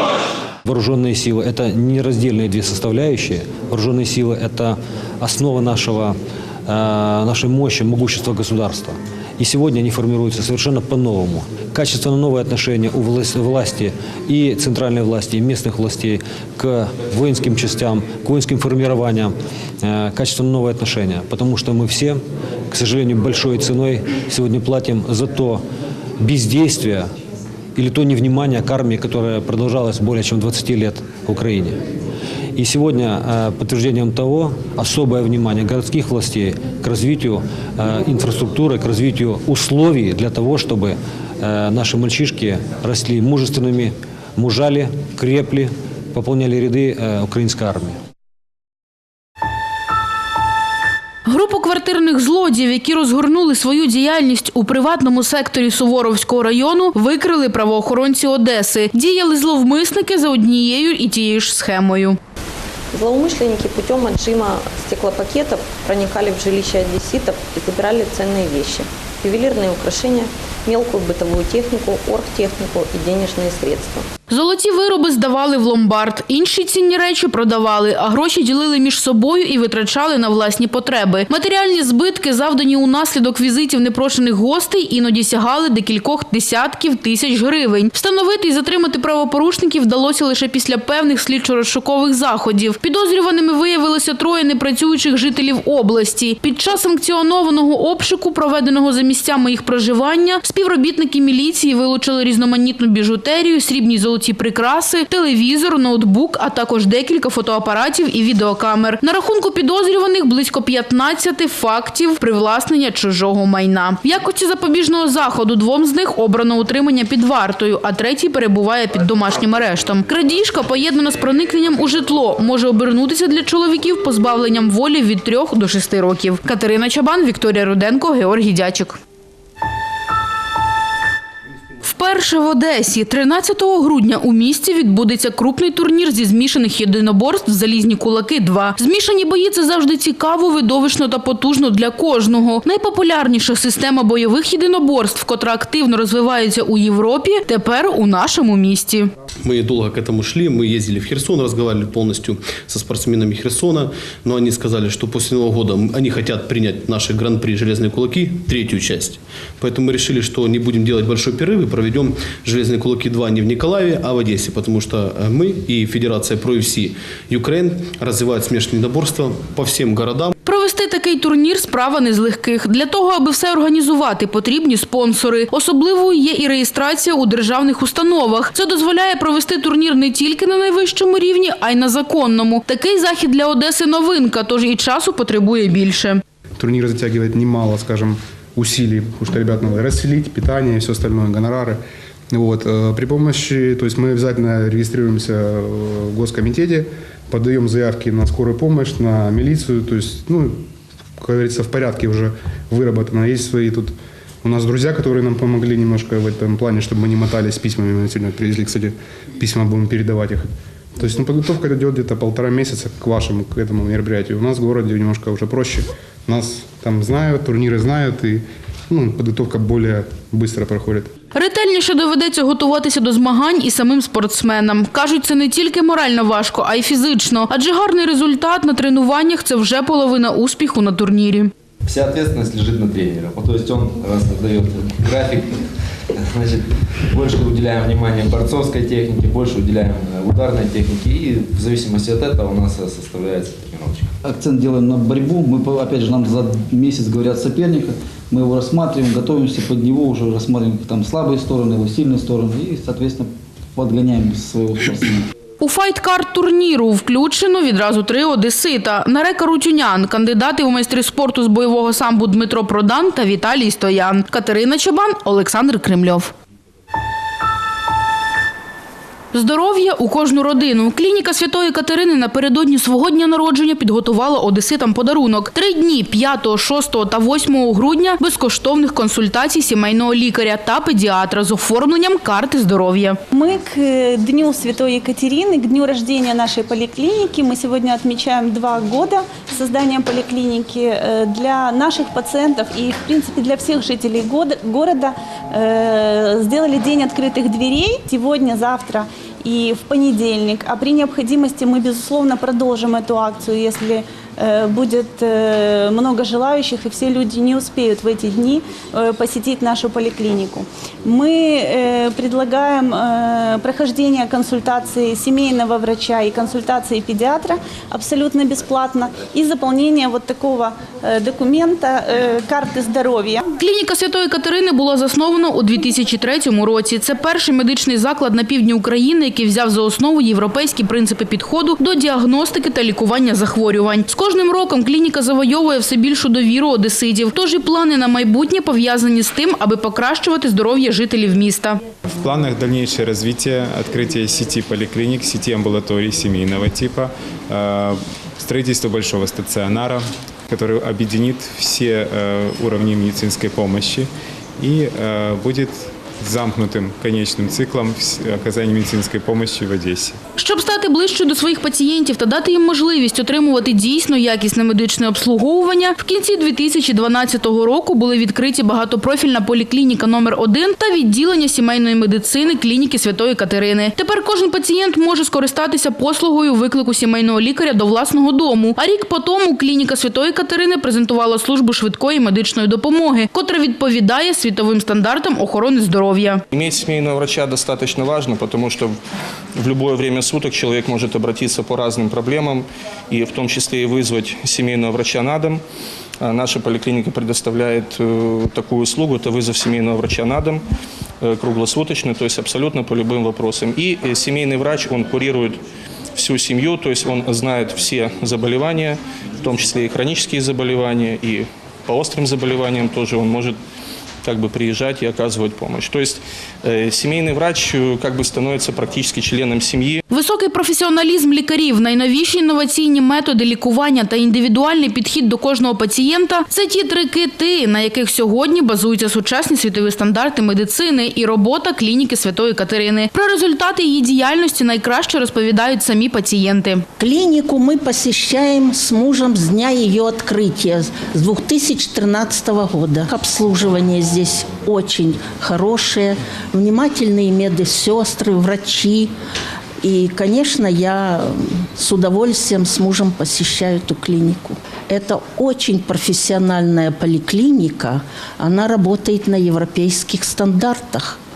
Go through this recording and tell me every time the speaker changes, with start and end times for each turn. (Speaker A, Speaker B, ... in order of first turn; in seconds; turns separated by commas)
Speaker A: 0.7-25.6, Speaker A: 26.2-27.1, Speaker A: 27.8-31.8, Speaker A: 32.5-48.0, Speaker B: 51.3-62.2, Speaker C: 62.9-74.1, Speaker B: 74.3-129.0, Speaker B: 131.8-149.1, Speaker D: 149.4-170.3, Speaker B: 170.4-186.2, Speaker E: 186.6-191.8, Speaker E: 192.3-200.6, Speaker E: 201.2-221.1, Speaker B: 221.3-231.5, Speaker F: 231.9-235.6, Speaker F: 236.3-244.1, Speaker G: 244.2-255.3, Speaker B: 255.6-266.3, Speaker B: 269.3-283.2, Speaker H: 283.3-323.4, Speaker B: 323.6-341.8, Speaker I: 342.2-360.2, Speaker B: 360.4-386.4, Speaker J: 386.5-389.0, Speaker J: 389.6-395.6, Speaker J: 396.2-400.7, Speaker J: 401.2-405.6, Speaker J: 406.2-413.6, Speaker J: 414.2-420.0, Speaker B: 420.1-436.9, Speaker K: 437.0-449.1, Speaker K: 449.8-461.2